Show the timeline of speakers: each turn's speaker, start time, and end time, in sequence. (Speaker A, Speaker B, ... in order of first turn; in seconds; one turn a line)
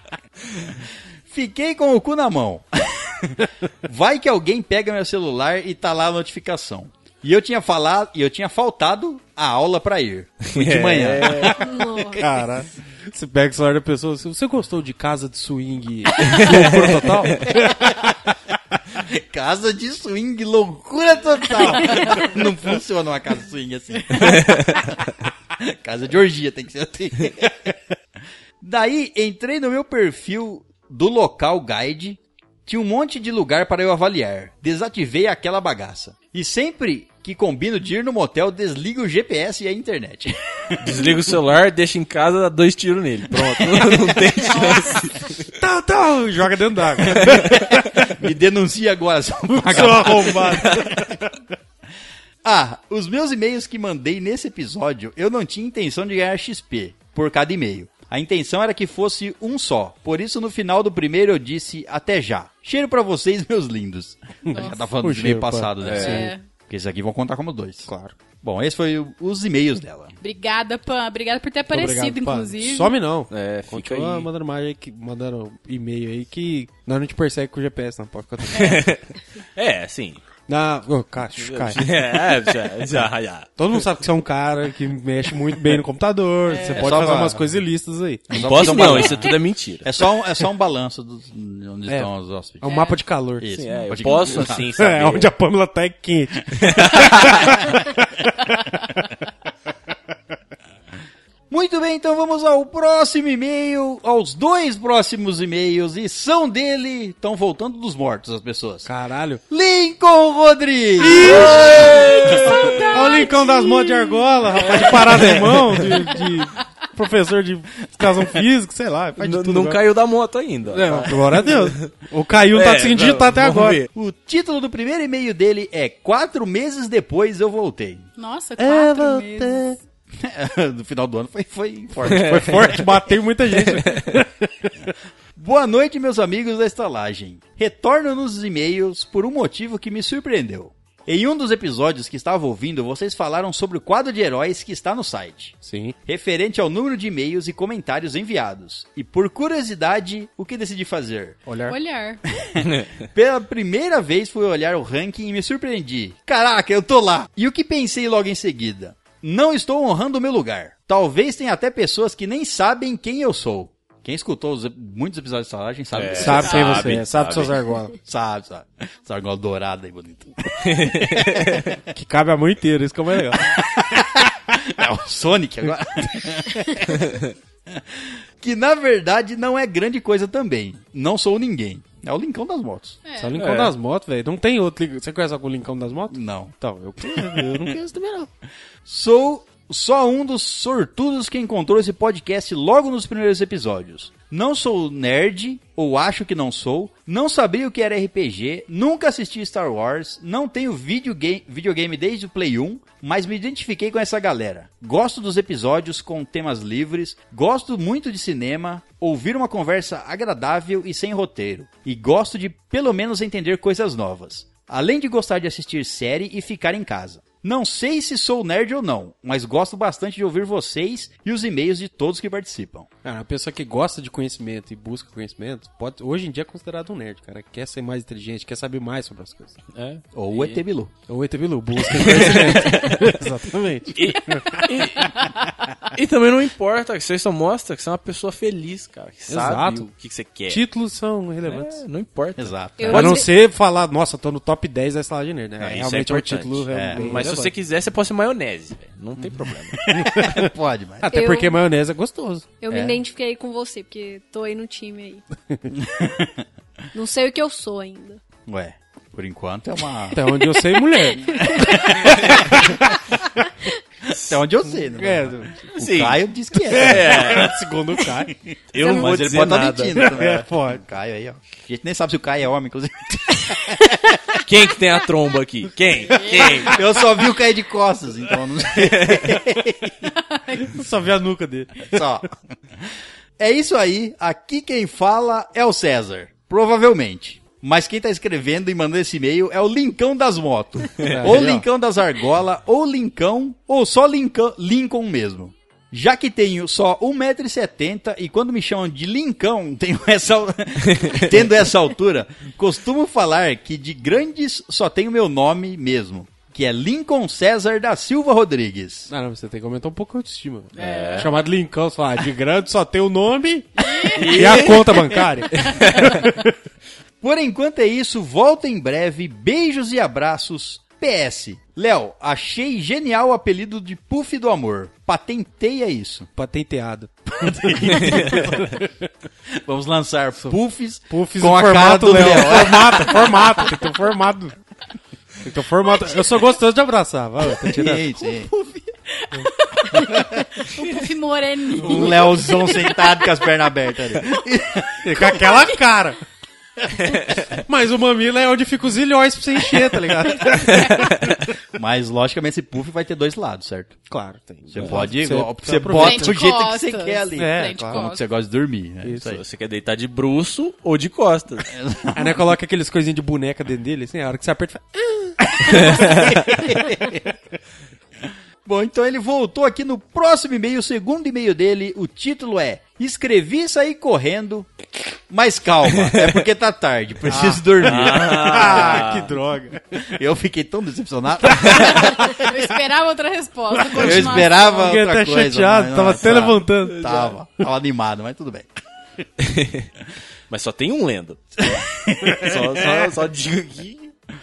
Speaker A: 1.3-12.1
Speaker B: 10.5-11.6
Speaker C: 11.6-12.4
Speaker D: 12.2-17.9
Speaker B: 16.3-17.0
Speaker A: 19.0-24.5
Speaker B: 24.2-24.7
Speaker A: 25.6-27.5
Speaker A: 28.6-40.8
Speaker B: 40.8-45.4
Speaker E: 44.5-45.0
Speaker D: 45.6-47.9
Speaker B: 47.2-47.6
Speaker A: 48.0-50.9
Speaker D: 49.6-51.3
Speaker A: 52.4-67.9
Speaker D: 64.5-66.3
Speaker E: 64.5-64.8
Speaker B: 65.8-66.2
Speaker E: 66.0-66.5
Speaker D: 67.9-68.1
Speaker A: 68.4-70.2
Speaker E: 70.2-73.0
Speaker D: 71.7-78.8
Speaker B: 73.3-74.3
Speaker B: 78.5-79.0
Speaker B: 79.6-80.2
Speaker D: 80.5-81.8
Speaker B: 81.4-83.5
Speaker D: 83.6-89.0
Speaker E: 86.5-87.0
Speaker A: 86.7-87.5
Speaker A: 88.3-92.7
Speaker B: 88.3-89.9
Speaker D: 91.9-93.6
Speaker E: 92.6-93.0
Speaker A: 93.4-94.7
Speaker B: 93.5-95.3
Speaker D: 94.5-98.0
Speaker B: 96.7-97.4
Speaker A: 101.5-108.9
Speaker D: 108.8-109.4
Speaker A: 109.5-112.7
Speaker D: 111.0-119.8
Speaker B: 111.3-112.8
Speaker E: 112.4-114.2
Speaker B: 114.8-115.9
Speaker B: 119.2-121.9
Speaker D: 120.7-123.8
Speaker B: 122.5-123.9
Speaker A: 123.9-128.1
Speaker E: 128.2-129.8
Speaker D: 128.6-129.8
Speaker A: 130.2-132.7
Speaker D: 132.1-134.9
Speaker B: 132.1-132.4
Speaker A: 135.4-151.4
Speaker D: 145.6-146.0
Speaker D: 151.5-151.8
Speaker E: 151.7-152.2
Speaker A: 152.5-166.9
Speaker B: 165.9-167.6
Speaker D: 166.2-167.9
Speaker A: 168.1-171.3
Speaker B: 170.7-171.7
Speaker D: 171.9-173.5
Speaker A: 173.4-176.9
Speaker A: 177.7-183.0
Speaker E: 183.1-183.4
Speaker D: 183.2-188.3
Speaker B: 183.4-183.7
Speaker A: 186.1-186.6
Speaker A: 187.2-187.6
Speaker A: 188.8-222.9
Speaker D: 223.0-229.6
Speaker B: 229.7-230.6
Speaker A: 230.1-230.9
Speaker D: 231.1-234.7
Speaker B: 232.0-233.1
Speaker B: 233.9-235.2
Speaker E: 235.0-235.3
Speaker B: 235.9-240.7
Speaker D: 239.3-239.9
Speaker D: 240.5-241.8
Speaker B: 241.5-243.3
Speaker A: 242.4-243.1
Speaker C: 242.8-243.3
Speaker D: 242.9-247.5
Speaker B: 245.6-249.8
Speaker A: 246.7-247.0
Speaker A: 249.2-251.1
Speaker D: 249.9-252.5
Speaker C: 251.1-251.6
Speaker C: 252.6-255.2
Speaker A: 252.7-253.0
Speaker A: 255.7-256.4
Speaker C: 256.9-258.2
Speaker A: 258.5-260.4
Speaker D: 260.1-261.3
Speaker A: 261.3-262.9
Speaker C: 261.4-261.8
Speaker A: 264.1-267.5
Speaker B: 264.1-264.4
Speaker D: 265.0-265.8
Speaker B: 265.8-266.2
Speaker B: 266.7-267.6
Speaker D: 266.7-268.3
Speaker A: 268.3-274.4
Speaker B: 268.7-270.4
Speaker D: 270.0-270.8
Speaker B: 274.4-276.8
Speaker E: 276.1-276.8
Speaker A: 276.5-280.1
Speaker B: 278.9-279.2
Speaker E: 280.3-280.8
Speaker D: 280.7-282.0
Speaker A: 281.9-282.3
Speaker A: 283.4-309.1
Speaker D: 291.0-291.6
Speaker D: 309.1-316.5
Speaker E: 310.8-311.4
Speaker B: 310.8-311.3
Speaker E: 313.8-314.8
Speaker B: 314.2-315.0
Speaker B: 315.7-316.0
Speaker A: 317.2-326.3
Speaker D: 326.4-329.0
Speaker A: 327.4-328.5
Speaker A: 329.5-333.3
Speaker D: 330.4-334.6
Speaker D: 335.4-338.1
Speaker A: 337.6-338.5
Speaker E: 338.7-343.2
Speaker A: 341.8-345.4
Speaker D: 345.0-346.2
Speaker D: 347.7-351.2
Speaker A: 351.7-354.0
Speaker D: 354.1-356.4
Speaker A: 354.7-359.4
Speaker B: 354.8-355.1
Speaker E: 355.9-358.3
Speaker D: 357.4-358.0
Speaker D: 359.0-359.3
Speaker B: 359.2-361.7
Speaker A: 361.7-362.4
Speaker D: 362.1-366.0
Speaker B: 365.7-366.3
Speaker A: 366.4-367.2
Speaker A: 368.6-374.7
Speaker A: 375.3-379.1
Speaker D: 377.3-380.0
Speaker B: 377.8-379.3
Speaker A: 380.1-382.4
Speaker D: 381.6-381.9
Speaker E: 382.2-384.8
Speaker D: 383.8-387.3
Speaker A: 383.9-388.7
Speaker B: 389.4-389.9
Speaker B: 390.5-391.7
Speaker A: 391.7-392.5
Speaker B: 392.4-394.1